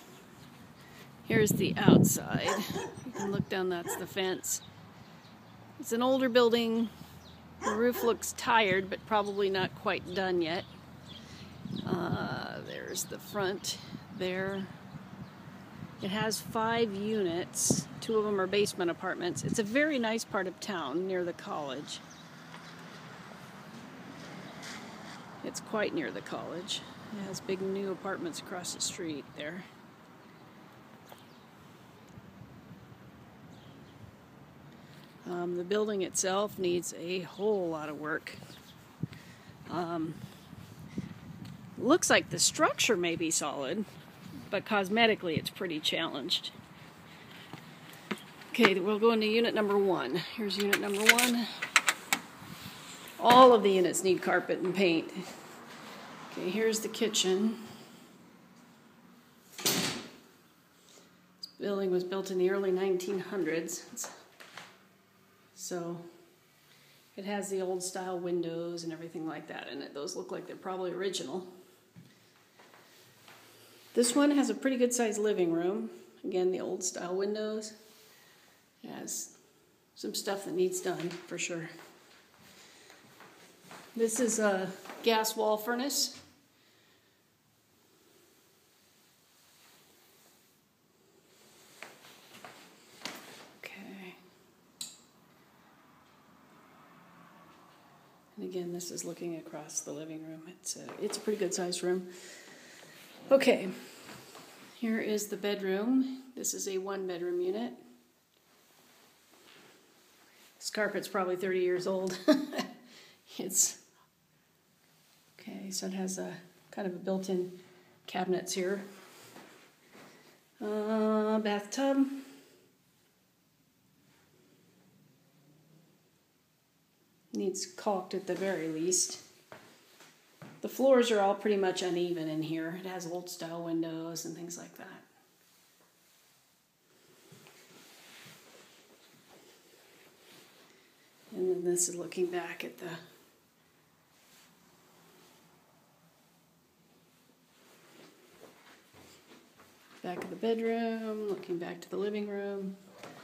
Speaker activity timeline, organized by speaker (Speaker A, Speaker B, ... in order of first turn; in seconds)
Speaker A: 1.2-4.6, 5.8-6.9, 7.6-10.7, 11.8-14.7, 16.0-22.0, 25.4-29.7, 35.2-38.4, 39.7-40.2, 41.8-43.9, 44.5-46.5, 48.5-51.5, 53.2-55.3, 56.3-57.6, 61.4-64.1, 65.5-66.1, 67.2-71.5, 73.9-77.7, 78.8-79.4, 80.0-81.7, 84.0-86.2, 93.6-94.2, 98.3-102.3, 103.3-104.0, 104.8-107.8, 110.6-112.7, 113.3-113.8, 115.4-118.9, 120.6-122.3, 127.3-129.2, 130.6-135.1, 141.3-143.0, 150.0-152.8